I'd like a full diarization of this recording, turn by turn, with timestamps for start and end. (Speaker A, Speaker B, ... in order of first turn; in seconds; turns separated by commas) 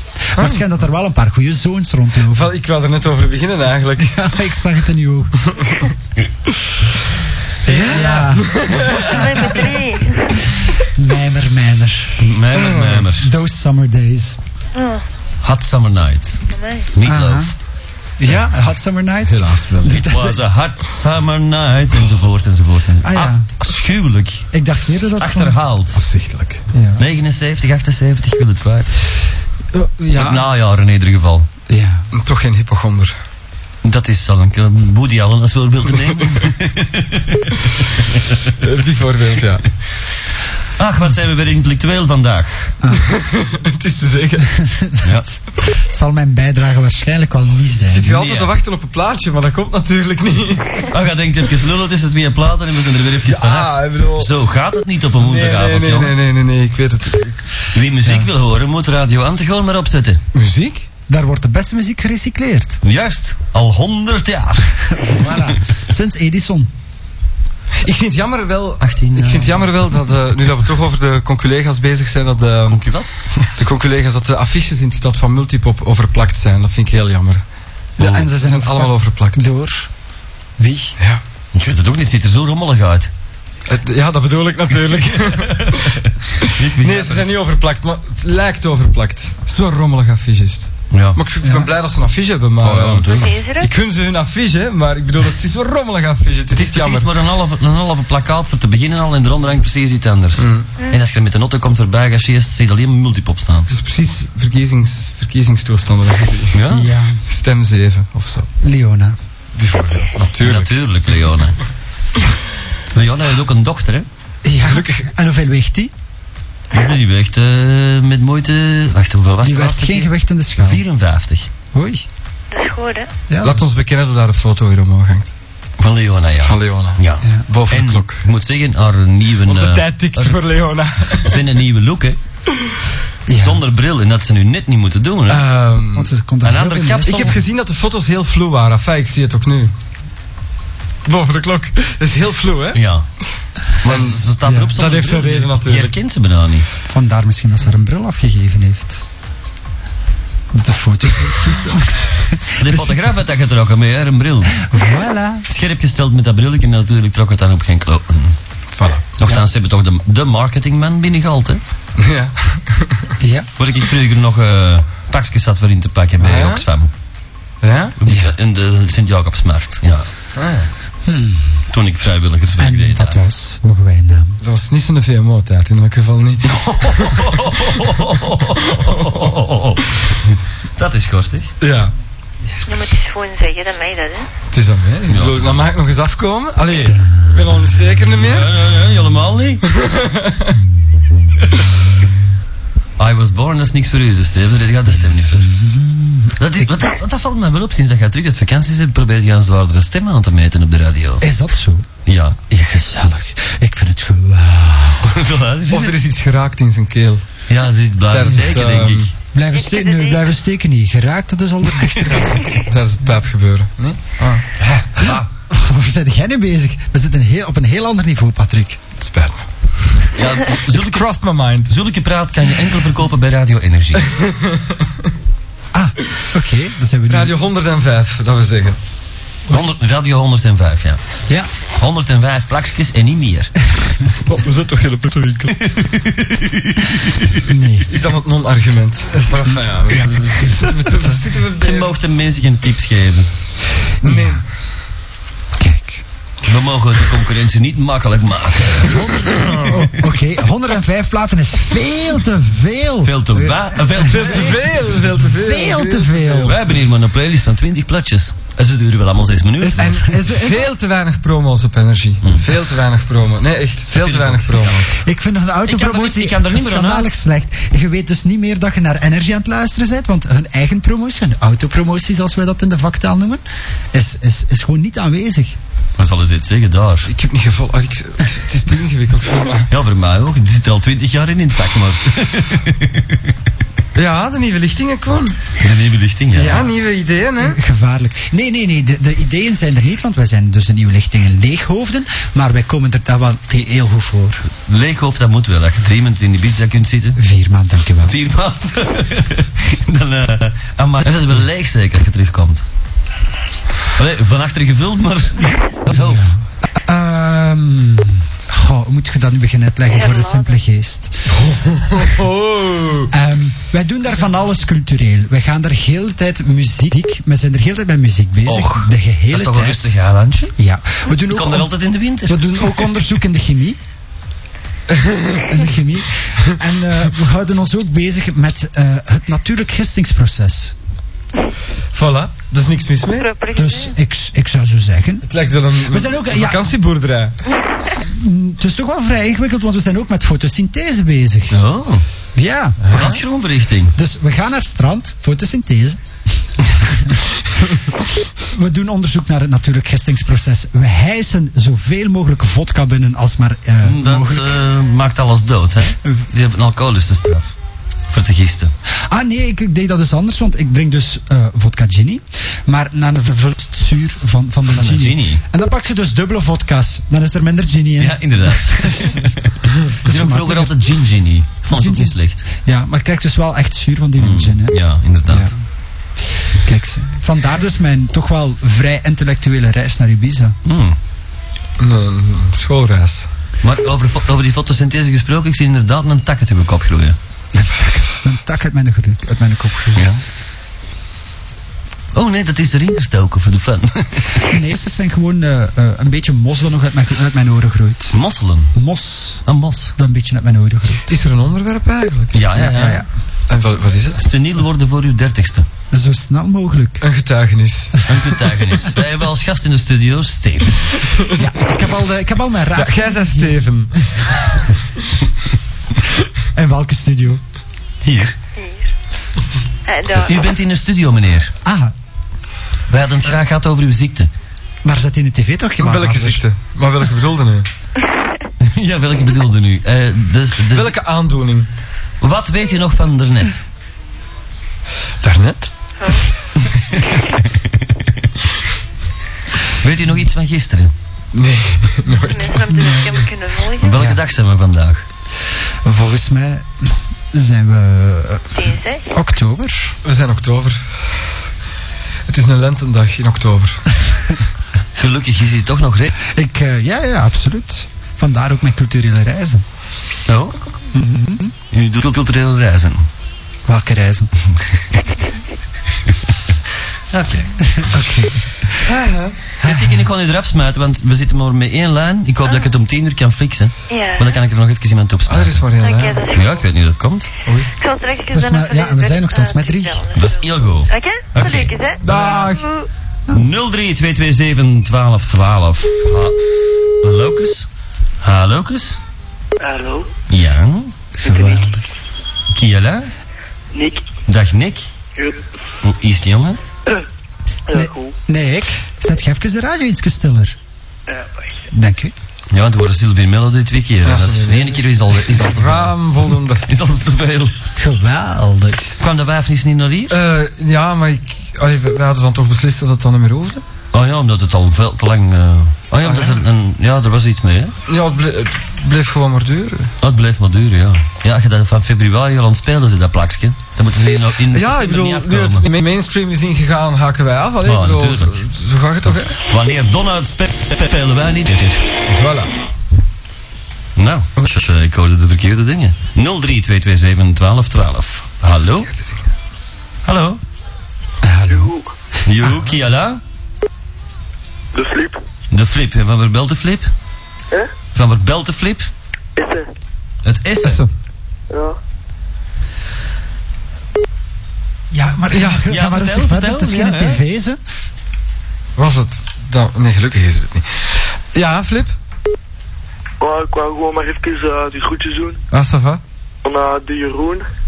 Speaker A: 0.3-2.5, Speaker B: 0.4-0.6, Speaker B: 2.3-4.2, Speaker A: 4.0-5.6, Speaker A: 7.7-9.7, Speaker B: 7.7-9.3, Speaker C: 7.9-8.2, Speaker D: 9.0-10.5, Speaker A: 10.8-12.3, Speaker C: 12.2-13.3, Speaker B: 12.5-13.1, Speaker A: 13.1-14.4, Speaker D: 14.8-15.1, Speaker C: 15.4-17.5, Speaker D: 16.5-16.9, Speaker A: 17.1-17.5, Speaker A: 18.2-20.4, Speaker B: 19.2-20.1, Speaker C: 20.0-26.0, Speaker A: 23.0-23.5, Speaker A: 24.5-25.6, Speaker B: 25.9-26.6, Speaker A: 26.7-27.0, Speaker C: 27.0-29.0, Speaker A: 29.7-30.5, Speaker C: 30.1-31.5, Speaker A: 31.7-32.1, Speaker B: 32.1-33.2, Speaker C: 33.8-38.5, Speaker B: 38.6-39.7, Speaker C: 40.8-42.8, Speaker A: 42.8-43.1, Speaker B: 43.1-44.7, Speaker A: 44.5-48.2, Speaker C: 45.0-45.3, Speaker B: 47.9-50.9, Speaker C: 48.1-48.5, Speaker C: 50.9-56.1, Speaker B: 53.2-54.3, Speaker B: 55.2-57.5, Speaker C: 57.7-60.2, Speaker B: 60.3-60.9, Speaker A: 61.1-62.8, Speaker C: 62.8-65.5, Speaker A: 64.9-66.7, Speaker B: 67.8-72.9, Speaker C: 68.8-69.9, Speaker C: 72.7-73.5, Speaker B: 73.5-77.5, Speaker A: 78.0-79.9, Speaker C: 78.0-78.3, Speaker B: 78.2-79.5, Speaker A: 80.6-81.0, Speaker C: 81.5-83.1, Speaker B: 83.7-86.0, Speaker C: 85.1-87.3, Speaker B: 86.8-97.1, Speaker C: 90.9-91.2, Speaker A: 91.4-91.7, Speaker C: 92.6-93.3, Speaker D: 93.1-93.7, Speaker C: 96.5-103.7, Speaker B: 100.4-100.7, Speaker B: 103.7-106.6, Speaker C: 106.5-106.9, Speaker A: 106.7-107.2, Speaker B: 107.3-108.5, Speaker A: 108.6-109.2, Speaker B: 109.5-110.8, Speaker C: 110.4-111.6, Speaker C: 112.9-114.1, Speaker A: 114.4-115.9, Speaker B: 114.7-115.1, Speaker C: 116.7-121.5, Speaker A: 119.4-120.8, Speaker A: 121.7-122.0, Speaker D: 122.5-123.1, Speaker A: 123.3-123.6, Speaker B: 123.4-125.3, Speaker C: 125.8-130.4, Speaker B: 126.5-128.2, Speaker A: 127.2-127.5, Speaker B: 129.4-131.4, Speaker C: 131.1-132.2, Speaker A: 133.3-133.6, Speaker C: 133.4-135.5, Speaker B: 135.3-136.1, Speaker A: 135.9-137.4, Speaker C: 136.4-137.4, Speaker B: 137.0-139.7, Speaker B: 141.1-142.8, Speaker C: 142.7-143.1, Speaker C: 143.8-146.7, Speaker B: 143.8-145.9, Speaker A: 144.4-144.7, Speaker A: 146.9-149.1, Speaker A: 150.5-153.1, Speaker C: 152.6-154.6, Speaker A: 154.5-155.5, Speaker C: 155.5-158.4, Speaker B: 158.8-159.0, Speaker C: 159.2-161.6, Speaker B: 162.0-163.1, Speaker A: 163.2-163.5, Speaker C: 163.6-166.9, Speaker B: 166.2-166.7, Speaker B: 167.6-168.0, Speaker C: 168.0-170.1, Speaker A: 168.1-168.3, Speaker B: 170.4-170.7, Speaker A: 171.1-171.7, Speaker C: 171.7-173.2, Speaker A: 172.6-174.4, Speaker B: 174.4-177.3, Speaker C: 176.5-181.5, Speaker B: 181.6-181.9, Speaker D: 182.7-184.3, Speaker B: 184.5-188.5, Speaker C: 185.1-185.7, Speaker C: 188.1-189.6, Speaker B: 189.7-190.6, Speaker C: 193.0-195.6, Speaker A: 195.4-196.7, Speaker C: 196.4-201.3, Speaker A: 201.2-201.9, Speaker C: 202.1-202.4, Speaker A: 202.5-205.2, Speaker C: 205.0-206.0, Speaker B: 205.7-207.3, Speaker C: 207.5-209.1, Speaker B: 208.1-209.1, Speaker A: 209.3-212.7, Speaker D: 209.5-210.3, Speaker B: 212.5-214.8, Speaker C: 214.9-215.3, Speaker A: 215.0-218.8, Speaker B: 219.0-220.1, Speaker C: 220.1-221.1, Speaker B: 220.7-221.7, Speaker C: 221.6-224.1, Speaker B: 224.0-224.9, Speaker A: 225.7-227.4, Speaker B: 227.1-228.8, Speaker C: 229.5-231.0, Speaker C: 231.8-233.6, Speaker B: 234.2-235.6, Speaker C: 235.6-237.5, Speaker A: 237.5-237.9, Speaker B: 237.9-241.9, Speaker C: 239.9-240.5, Speaker A: 239.9-240.6, Speaker C: 241.6-243.3, Speaker A: 244.0-244.4, Speaker B: 244.0-244.4, Speaker A: 245.6-246.1, Speaker C: 246.4-249.8, Speaker A: 248.9-256.6, Speaker C: 253.0-254.6, Speaker B: 254.0-256.6, Speaker C: 256.4-260.1, Speaker A: 259.6-260.7, Speaker B: 259.8-265.0, Speaker C: 262.2-262.6, Speaker C: 263.9-265.0, Speaker A: 265.0-275.6, Speaker C: 265.6-267.2, Speaker C: 276.0-277.1, Speaker B: 277.1-279.7, Speaker C: 279.7-283.2, Speaker B: 283.9-285.4, Speaker C: 285.6-286.7, Speaker A: 286.3-286.8, Speaker B: 286.4-287.6, Speaker A: 287.4-294.4, Speaker C: 294.6-297.2, Speaker A: 297.2-298.2, Speaker C: 298.0-302.6, Speaker C: 303.9-306.3, Speaker A: 305.9-311.4, Speaker D: 309.9-310.6, Speaker B: 311.3-313.1, Speaker A: 313.1-319.9, Speaker C: 318.5-320.5, Speaker A: 320.6-323.8, Speaker C: 321.2-322.8, Speaker B: 324.9-325.6, Speaker A: 325.5-330.8, Speaker B: 331.9-333.3, Speaker D: 333.2-334.0, Speaker A: 333.5-336.7, Speaker B: 335.3-337.4, Speaker A: 338.0-341.6, Speaker C: 341.5-342.1, Speaker A: 342.4-343.1, Speaker B: 342.8-343.2, Speaker C: 342.9-344.0, Speaker A: 343.9-346.0, Speaker A: 346.6-354.6, Speaker C: 353.8-357.5, Speaker C: 358.1-358.7, Speaker A: 359.1-369.4, Speaker C: 364.7-365.4, Speaker C: 368.0-372.5, Speaker A: 369.9-370.8, Speaker A: 371.7-375.6, Speaker C: 374.2-375.5, Speaker A: 376.2-380.6, Speaker C: 380.6-381.0, Speaker B: 381.8-383.3, Speaker C: 383.6-387.2, Speaker A: 387.5-390.1, Speaker C: 389.9-390.2, Speaker C: 392.1-394.5, Speaker A: 394.4-398.2, Speaker C: 398.1-398.8, Speaker A: 398.7-399.4, Speaker C: 399.5-399.9, Speaker A: 400.0-401.1, Speaker B: 401.1-402.5, Speaker C: 402.3-403.0, Speaker A: 402.6-403.1, Speaker B: 403.5-404.2, Speaker C: 404.1-405.7, Speaker A: 405.9-407.1, Speaker B: 407.0-408.0, Speaker C: 408.1-410.9, Speaker A: 411.3-413.7, Speaker B: 412.8-414.1, Speaker A: 416.5-417.4, Speaker C: 418.0-418.4, Speaker D: 418.6-418.9, Speaker D: 419.9-420.5, Speaker C: 420.2-421.5, Speaker A: 421.6-421.9, Speaker C: 422.9-424.3, Speaker A: 424.8-426.4, Speaker B: 425.8-427.7, Speaker C: 428.6-430.9, Speaker B: 430.7-431.7, Speaker C: 432.2-433.6, Speaker B: 435.2-435.7, Speaker D: 436.0-436.3, Speaker C: 439.8-440.9, Speaker B: 441.3-443.0, Speaker D: 442.2-444.0, Speaker C: 443.8-445.1, Speaker A: 443.9-444.2, Speaker A: 445.8-450.0, Speaker D: 448.5-449.1, Speaker B: 450.1-451.0, Speaker B: 452.3-453.9, Speaker A: 454.1-454.3, Speaker C: 455.0-456.1, Speaker A: 456.2-459.6, Speaker C: 460.3-460.6, Speaker A: 460.9-461.6, Speaker C: 461.7-463.1, Speaker A: 463.7-464.3, Speaker C: 467.1-467.7, Speaker A: 467.7-468.9, Speaker B: 468.9-469.4, Speaker A: 469.6-470.1, Speaker C: 469.6-475.6, Speaker D: 472.4-472.7, Speaker D: 473.9-474.4, Speaker B: 475.3-476.2, Speaker D: 475.8-476.6, Speaker C: 476.3-477.3, Speaker B: 477.5-477.7, Speaker D: 477.8-482.9, Speaker A: 478.3-480.1, Speaker C: 480.1-481.8, Speaker B: 482.0-482.7, Speaker C: 483.3-487.7, Speaker C: 488.2-489.0, Speaker E: 489.6-490.1, Speaker C: 490.3-490.9, Speaker A: 491.2-491.9, Speaker E: 491.2-491.7, Speaker C: 492.5-493.1, Speaker E: 493.7-494.1, Speaker C: 494.3-494.9, Speaker E: 495.2-495.4, Speaker C: 495.8-496.6, Speaker E: 497.7-498.1, Speaker A: 497.7-500.6, Speaker E: 501.1-501.5, Speaker A: 501.7-502.1, Speaker C: 502.5-507.6, Speaker B: 504.1-506.6, Speaker A: 507.8-508.9, Speaker C: 509.0-510.1, Speaker B: 510.1-513.6, Speaker C: 513.9-517.8, Speaker B: 516.0-516.4, Speaker B: 517.9-519.9, Speaker C: 520.0-525.7, Speaker B: 524.5-529.4, Speaker C: 527.6-528.4, Speaker C: 529.5-531.9, Speaker B: 532.1-532.5, Speaker C: 534.0-538.9, Speaker C: 540.0-540.4, Speaker A: 541.2-541.7, Speaker E: 541.5-541.9, Speaker C: 542.2-543.2, Speaker A: 542.4-542.7, Speaker E: 544.7-545.2, Speaker C: 545.5-546.9, Speaker C: 547.9-548.9, Speaker E: 549.4-549.7, Speaker C: 550.2-550.8, Speaker B: 550.6-550.9, Speaker E: 551.5-551.8, Speaker A: 554.9-557.6, Speaker B: 555.3-555.6, Speaker C: 555.6-557.2, Speaker B: 558.8-562.0, Speaker E: 563.2-565.4, Speaker B: 565.5-566.0, Speaker E: 566.4-567.5